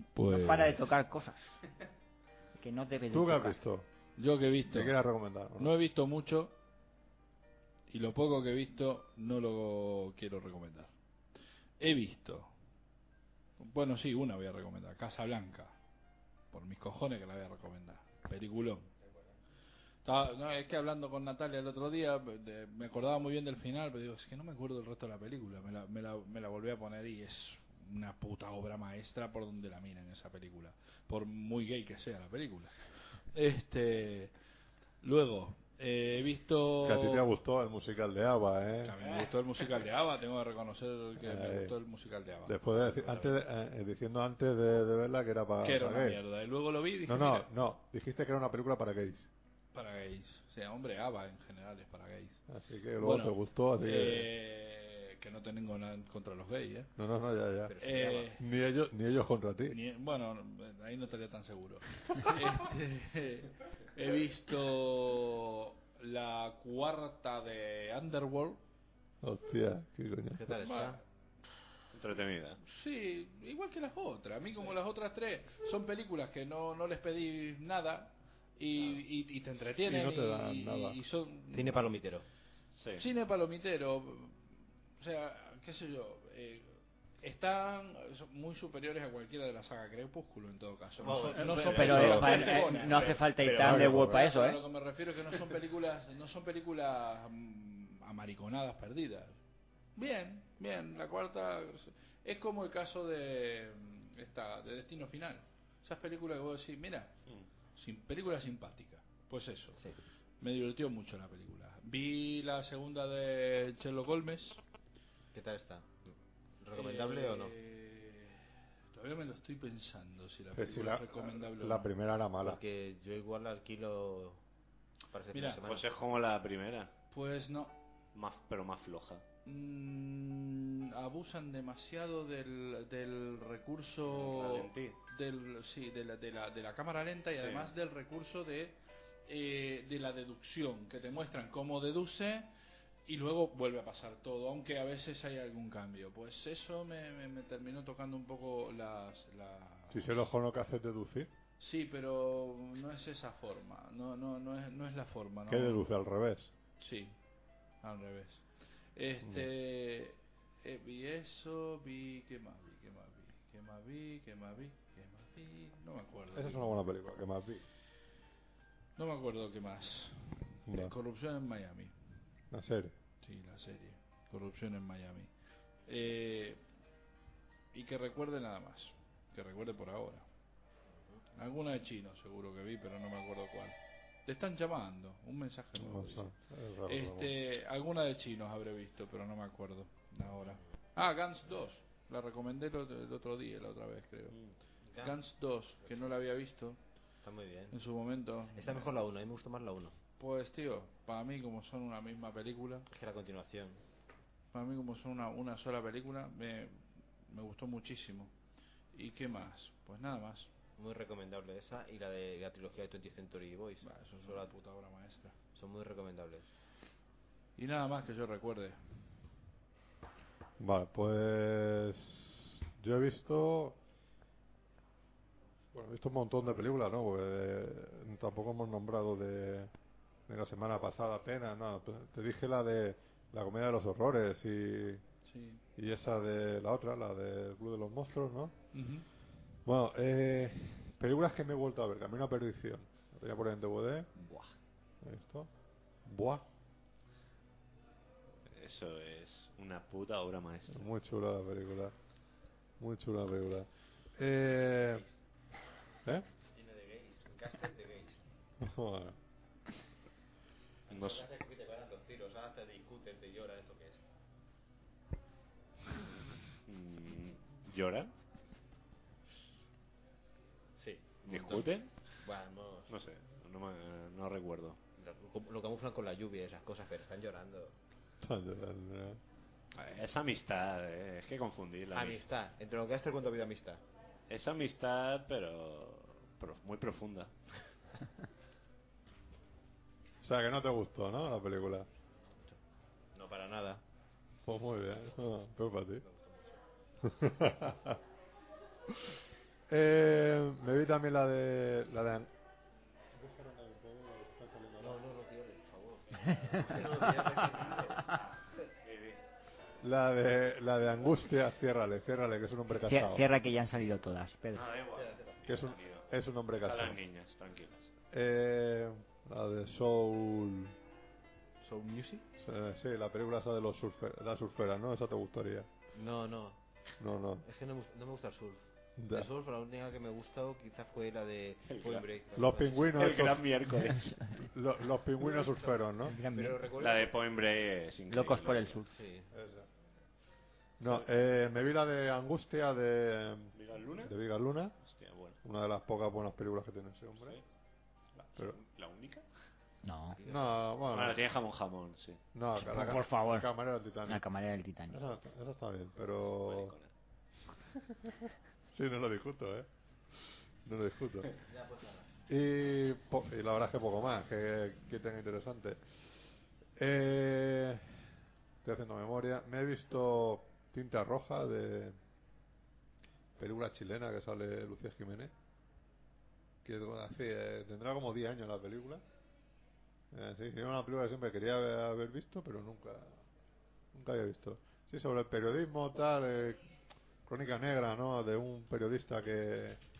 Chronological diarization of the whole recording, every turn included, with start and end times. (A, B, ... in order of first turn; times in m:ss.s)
0:00.1-0:00.8 A
0:00.2-0:01.6 B
0:02.6-0:03.6 B
0:03.1-0:03.9 C
0:04.2-0:05.0 A
0:04.7-0:05.8 C
0:05.6-0:06.6 A
0:07.9-0:10.9 A
0:11.8-0:12.5 A
0:13.6-0:15.8 A
0:16.5-0:18.9 A
0:20.0-0:34.3 A
0:35.0-0:37.3 A
0:36.8-0:39.0 C
0:38.8-0:43.2 A
0:39.0-0:39.8 D
0:41.2-0:41.8 C
0:42.5-0:46.2 C
0:45.6-0:47.5 A
0:47.1-0:49.3 C
0:49.7-0:52.4 A
0:52.5-0:54.3 C
0:53.0-0:56.9 A
0:57.0-0:59.8 C
0:57.7-0:58.3 E
0:57.8-0:58.4 A
0:59.7-1:08.6 A
1:09.2-1:10.6 C
1:10.4-1:11.0 E
1:10.6-1:11.0 A
1:11.9-1:12.6 D
1:12.6-1:22.0 A
1:19.8-1:21.0 C
1:21.5-1:22.3 E
1:22.7-1:23.1 D
1:23.0-1:24.5 A
1:25.0-1:33.2 A
1:31.0-1:31.9 E
1:31.2-1:33.8 D
1:31.6-1:34.6 B
1:33.6-1:34.2 C
1:33.9-1:39.4 A
1:40.0-1:47.2 A
1:47.8-1:49.8 A
1:50.4-1:54.6 A
1:55.3-1:57.5 E
1:56.7-2:01.9 A
2:00.5-2:02.6 C
2:02.4-2:04.4 E
2:05.1-2:05.9 E
2:05.3-2:05.6 A
2:05.6-2:06.9 D
2:07.1-2:07.8 A
2:08.1-2:09.2 D
2:09.4-2:22.5 A
2:14.1-2:15.0 D
2:17.4-2:17.7 D
2:23.1-2:30.2 A
2:29.9-2:31.3 C
2:31.6-2:35.8 A
2:35.5-2:36.5 C
2:36.8-2:37.2 A
2:37.8-2:46.8 A
2:39.2-2:39.5 C
2:46.3-2:47.6 C
2:49.0-2:51.9 A
2:50.7-2:50.9 C
2:52.5-2:52.9 C
2:53.2-2:55.3 A
2:55.9-2:56.6 A
2:57.7-3:00.3 A
3:01.4-3:06.3 A
3:05.8-3:07.4 C
3:06.9-3:14.4 A
3:14.8-3:15.2 E
3:15.0-3:16.8 A
3:17.2-3:17.8 E
3:17.7-3:19.0 A
3:18.5-3:20.0 E
3:20.2-3:22.9 A
3:22.9-3:23.8 E
3:24.5-3:28.3 A
3:28.9-3:30.5 A
3:30.8-3:34.5 E
3:33.8-3:35.4 A
3:35.6-3:36.5 E
3:37.6-3:39.0 A
3:40.6-3:43.8 C
3:45.7-3:49.7 C
3:50.3-3:55.0 C
3:55.3-3:55.6 A
3:55.8-3:58.6 C
3:58.7-3:59.1 A
3:59.6-4:04.1 C
4:05.0-4:05.5 C
4:06.0-4:06.4 C
4:08.5-4:10.9 D
4:10.7-4:11.9 C
4:12.8-4:15.1 C
4:16.5-4:18.2 E
4:18.6-4:19.2 C
4:20.9-4:24.1 E
4:20.9-4:21.2 D
4:26.7-4:28.1 D
4:30.8-4:33.0 E
4:31.2-4:32.1 D
4:32.9-4:34.8 D
4:35.0-4:37.8 E
4:38.2-4:39.2 C
4:39.8-4:42.2 D
4:41.9-4:43.8 E
4:44.3-4:47.3 D
4:50.2-4:51.9 C
4:53.2-4:53.8 E
4:54.4-4:56.0 C
4:56.0-4:56.6 E
4:57.0-4:58.0 C
4:58.9-4:59.2 C
4:59.7-5:02.3 C
5:03.1-5:05.0 C
5:04.8-5:08.1 E
5:06.3-5:06.6 B
5:08.8-5:09.2 D
5:09.8-5:13.2 C
5:12.7-5:14.7 B
5:14.5-5:16.1 D
5:14.9-5:15.4 E
5:15.5-5:17.0 C
5:16.6-5:17.9 D
5:18.1-5:20.7 C
5:21.6-5:22.3 E
5:22.4-5:25.7 C
5:25.9-5:26.6 E
5:27.0-5:27.4 C
5:27.4-5:28.6 E
5:29.0-5:29.3 C
5:29.1-5:33.0 E
5:31.7-5:32.0 D
5:32.4-5:33.5 C
5:32.9-5:34.4 D
5:34.4-5:36.2 C
5:35.2-5:37.2 E
5:36.0-5:36.6 B
5:36.8-5:38.8 D
5:38.1-5:38.9 B
5:38.9-5:39.3 E
5:39.3-5:39.7 C
5:40.8-5:44.8 C
5:43.5-5:44.2 D
5:44.8-5:45.4 D
5:45.4-5:47.4 C
5:47.2-5:47.4 D
5:48.2-5:49.3 D
5:49.8-5:50.2 B
5:50.2-5:50.5 E
5:50.2-5:51.2 C
5:50.9-5:52.2 D
5:52.3-5:54.2 C
5:52.6-5:53.5 B
5:54.1-5:55.0 B
5:54.9-5:56.8 C
5:56.4-5:56.9 D
5:57.9-5:58.2 C
5:58.7-5:59.7 C
6:00.2-6:01.3 C
6:01.5-6:02.1 E
6:02.3-6:06.0 C
6:06.8-6:08.0 C
6:08.6-6:12.0 C
6:13.4-6:15.3 C
6:16.6-6:19.0 C
6:20.1-6:23.2 C
6:23.9-6:26.7 C
6:27.3-6:29.8 C